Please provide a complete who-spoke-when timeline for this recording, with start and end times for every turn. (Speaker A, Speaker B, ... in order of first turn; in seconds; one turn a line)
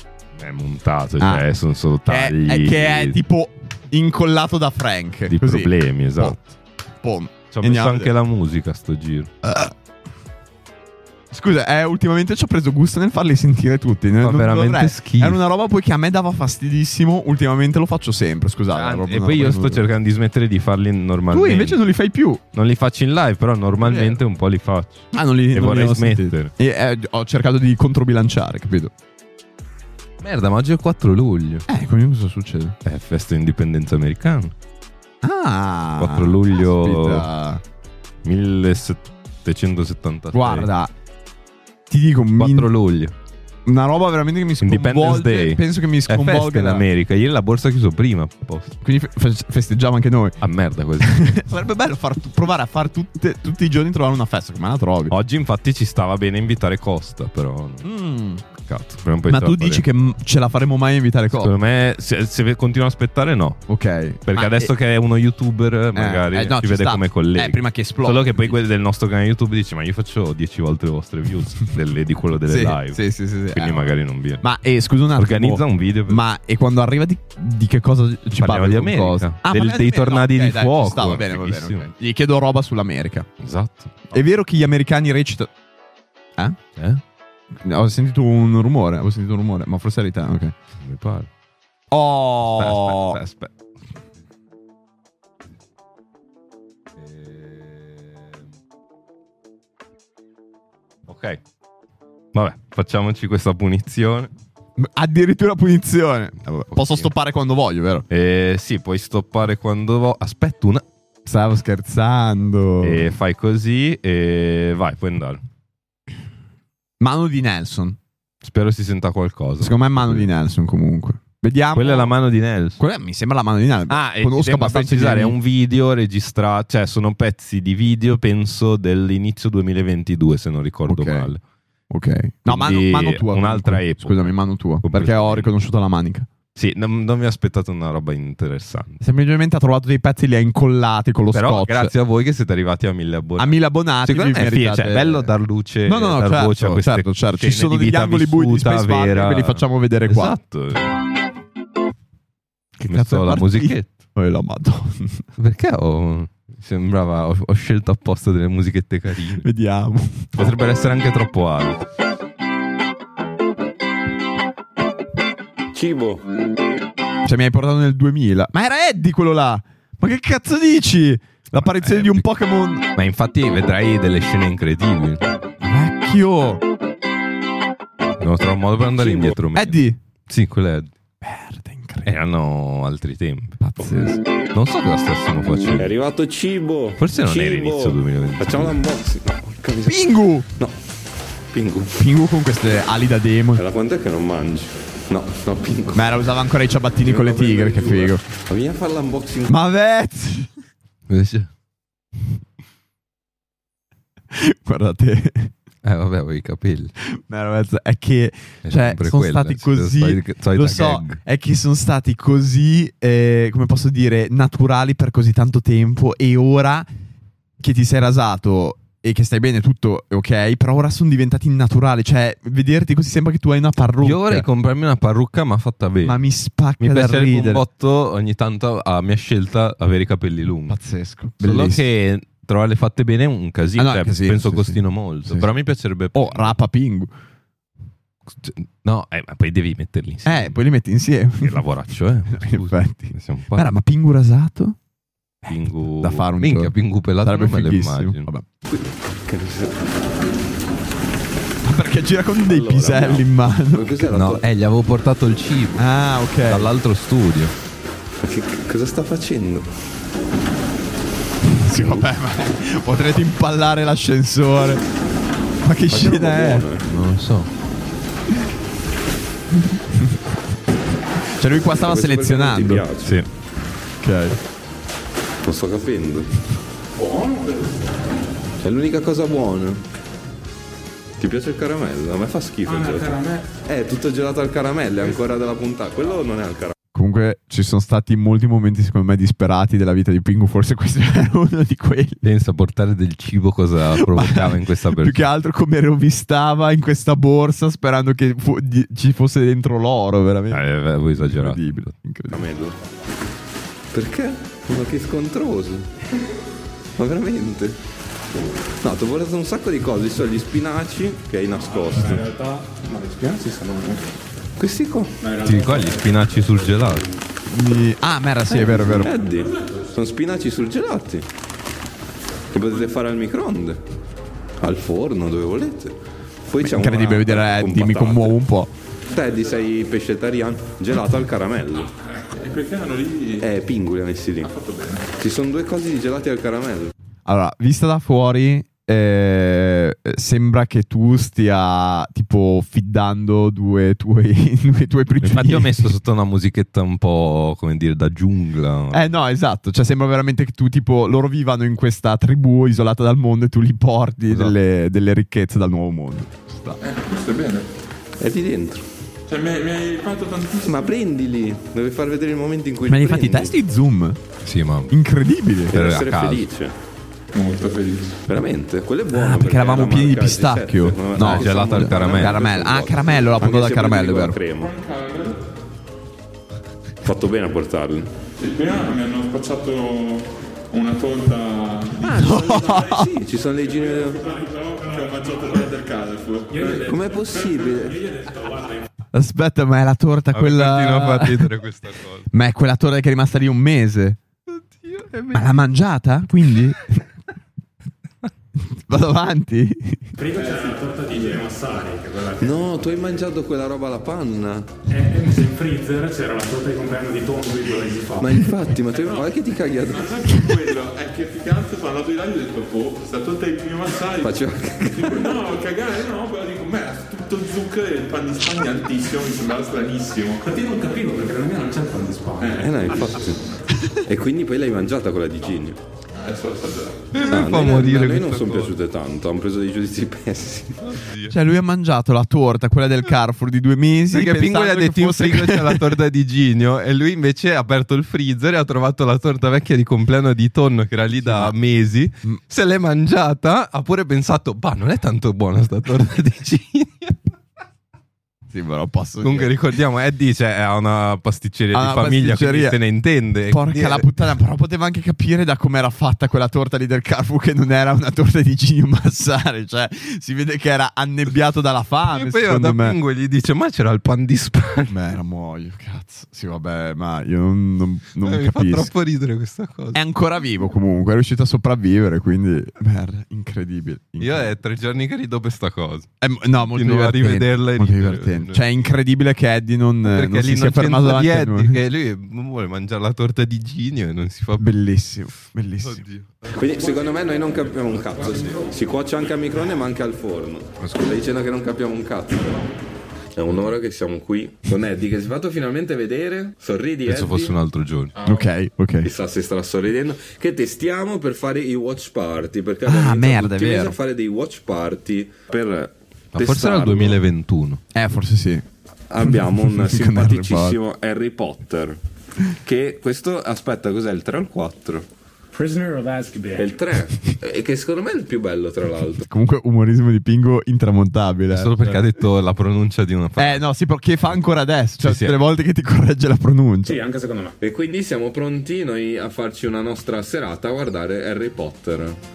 Speaker A: 0.4-3.2
Speaker B: 1.2-1.5
Speaker B: 2.1-6.5
Speaker A: 5.3-6.4
Speaker B: 7.0-8.1
Speaker A: 7.5-9.3
Speaker B: 9.4-9.7
Speaker B: 11.3-19.8
Speaker A: 14.2-15.4
Speaker A: 18.7-21.8
Speaker B: 21.3-22.4
Speaker A: 22.5-26.5
Speaker B: 23.8-24.2
Speaker B: 25.1-28.9
Speaker A: 30.2-31.7
Speaker B: 31.7-32.8
Speaker A: 32.8-34.5
Speaker B: 35.2-37.6
Speaker A: 36.0-37.3
Speaker A: 38.2-40.7
Speaker B: 40.3-40.9
Speaker B: 41.9-42.7
Speaker A: 42.4-43.1
Speaker B: 43.7-46.9
Speaker A: 44.6-48.8
Speaker B: 48.8-50.4
Speaker A: 50.4-51.3
Speaker B: 51.0-55.1
Speaker A: 55.1-57.9
Speaker B: 57.8-58.4
Speaker A: 58.6-59.9
Speaker B: 59.3-61.5
Speaker A: 61.3-63.7
Speaker B: 63.7-64.7
Speaker A: 64.2-73.0
Speaker B: 66.0-68.6
Speaker B: 72.5-73.9
Speaker A: 73.5-74.4
Speaker B: 74.4-83.3
Speaker A: 75.2-76.2
Speaker A: 78.3-81.9
Speaker A: 83.4-84.1
Speaker B: 84.1-85.5
Speaker A: 86.8-87.0
Speaker B: 87.6-90.5
Speaker A: 90.8-91.3
Speaker B: 91.9-93.2
Speaker A: 92.5-93.5
Speaker A: 97.0-98.0
Speaker A: 101.1-101.4
Speaker A: 102.3-104.3
Speaker B: 104.8-108.1
Speaker A: 106.7-107.1
Speaker A: 108.1-110.8
Speaker B: 111.3-113.1
Speaker A: 112.8-115.4
Speaker B: 117.0-118.0
Speaker A: 118.4-120.3
Speaker B: 119.6-122.2
Speaker A: 121.7-122.8
Speaker B: 122.8-125.4
Speaker A: 123.9-131.4
Speaker B: 130.9-131.3
Speaker B: 131.9-136.3
Speaker A: 132.5-135.5
Speaker A: 136.6-139.0
Speaker B: 139.0-141.9
Speaker A: 141.3-151.0
Speaker B: 143.4-145.3
Speaker B: 145.8-150.4
Speaker A: 152.8-153.9
Speaker B: 152.8-155.2
Speaker A: 155.4-159.5
Speaker B: 159.4-160.3
Speaker A: 160.4-161.8
Speaker C: 165.7-166.2
Speaker B: 167.2-172.8
Speaker A: 171.6-172.3
Speaker A: 172.9-175.2
Speaker B: 175.6-176.6
Speaker A: 178.2-180.9
Speaker C: 178.9-179.4
Speaker B: 179.6-180.0
Speaker B: 181.2-182.1
Speaker A: 182.1-185.9
Speaker B: 183.6-184.2
Speaker C: 185.8-190.7
Speaker A: 187.0-188.8
Speaker B: 189.8-190.5
Speaker C: 191.5-191.9
Speaker B: 191.9-193.6
Speaker C: 193.6-196.2
Speaker B: 195.9-198.2
Speaker C: 197.0-199.5
Speaker B: 199.5-200.5
Speaker A: 201.1-201.5
Speaker B: 204.3-205.5
Speaker A: 205.8-206.9
Speaker B: 207.3-216.9
Speaker A: 208.7-211.2
Speaker B: 217.6-224.5
Speaker A: 224.0-226.2
Speaker B: 226.0-227.6
Speaker A: 226.8-230.8
Speaker B: 230.7-231.8
Speaker A: 231.4-236.6
Speaker B: 233.8-235.5
Speaker B: 236.1-237.1
Speaker A: 238.3-240.6
Speaker B: 240.2-241.6
Speaker A: 241.4-243.8
Speaker B: 242.3-244.8
Speaker B: 245.4-248.5
Speaker A: 245.5-248.3
Speaker C: 248.7-249.8
Speaker B: 251.6-254.1
Speaker C: 252.4-254.4
Speaker A: 254.1-255.9
Speaker B: 255.8-256.7
Speaker A: 256.4-257.5
Speaker C: 258.2-259.7
Speaker B: 261.5-264.8
Speaker B: 265.6-266.7
Speaker C: 265.9-266.9
Speaker A: 266.8-267.5
Speaker B: 271.4-272.9
Speaker C: 271.7-273.2
Speaker B: 274.0-274.4
Speaker C: 275.4-276.3
Speaker D: 277.0-277.6
Speaker C: 278.6-279.8
Speaker C: 281.2-286.7
Speaker E: 282.7-283.4
Speaker D: 282.9-283.2
Speaker B: 286.9-292.2
Speaker A: 292.2-295.3
Speaker B: 293.9-302.5
Speaker A: 300.5-301.9
Speaker C: 302.3-302.8
Speaker C: 303.9-305.9
Speaker C: 307.0-307.8
Speaker C: 308.8-312.2
Speaker E: 311.8-314.1
Speaker C: 314.6-315.1
Speaker D: 315.2-315.9
Speaker A: 315.4-317.1
Speaker B: 317.5-319.1
Speaker C: 318.5-321.3
Speaker D: 319.4-319.7
Speaker C: 322.5-323.8
Speaker C: 324.6-328.4
Speaker B: 326.6-328.7
Speaker C: 329.1-331.9
Speaker D: 332.2-333.5
Speaker C: 333.4-334.5
Speaker D: 334.4-335.1
Speaker C: 335.2-336.9
Speaker B: 337.3-345.9
Speaker A: 345.2-349.1
Speaker B: 348.9-356.8
Speaker A: 354.3-354.6
Speaker D: 356.8-357.7
Speaker C: 358.2-358.9
Speaker D: 359.3-360.9
Speaker C: 360.6-363.5
Speaker B: 362.9-364.2
Speaker A: 364.4-364.9
Speaker B: 364.9-365.8
Speaker A: 365.7-366.5
Speaker C: 365.7-366.7
Speaker D: 367.3-368.2
Speaker C: 368.3-374.7
Speaker B: 369.1-374.4
Speaker A: 371.2-372.7
Speaker D: 374.6-375.4
Speaker C: 377.0-378.1
Speaker D: 378.4-387.7
Speaker C: 382.0-384.2
Speaker B: 382.1-383.1
Speaker E: 386.5-388.9
Speaker C: 386.8-388.0
Speaker B: 389.1-391.6
Speaker A: 390.3-392.3
Speaker B: 392.3-394.2
Speaker A: 394.5-395.5
Speaker B: 395.3-397.0
Speaker B: 398.7-400.1
Speaker E: 400.2-403.0
Speaker C: 402.4-404.7
Speaker E: 404.9-408.5
Speaker C: 408.2-410.4
Speaker D: 408.9-420.5
Speaker C: 414.2-415.3
Speaker E: 420.4-422.8
Speaker C: 422.5-423.4
Speaker C: 423.9-425.8
Speaker D: 426.1-427.1
Speaker A: 427.1-428.8
Speaker C: 427.2-431.0
Speaker A: 430.8-431.4
Speaker B: 431.3-436.0
Speaker A: 434.1-447.2
Speaker B: 441.2-441.5
Speaker B: 448.5-449.5
Speaker A: 449.2-454.1
Speaker B: 451.7-452.8
Speaker B: 453.5-463.0
Speaker A: 462.1-465.0
Speaker B: 464.9-468.9
Speaker A: 468.2-470.0
Speaker B: 469.9-474.5
Speaker A: 474.2-478.8
Speaker B: 476.2-481.8
Speaker A: 480.0-484.8
Speaker B: 484.6-486.1
Speaker A: 485.8-486.4
Speaker C: 486.5-492.6
Speaker A: 487.9-488.6
Speaker A: 490.8-491.2
Speaker C: 493.4-497.6
Speaker A: 497.1-498.1
Speaker B: 498.2-499.1
Speaker C: 499.0-507.2
Speaker B: 502.9-504.0
Speaker A: 506.3-507.8
Speaker B: 507.9-508.6
Speaker C: 509.1-512.0
Speaker B: 509.2-510.8
Speaker C: 512.6-515.1
Speaker E: 515.5-516.8
Speaker C: 516.6-519.3
Speaker B: 519.3-522.0
Speaker A: 521.5-523.7
Speaker B: 523.4-527.0
Speaker A: 525.0-525.4
Speaker E: 526.9-527.6
Speaker C: 527.6-532.2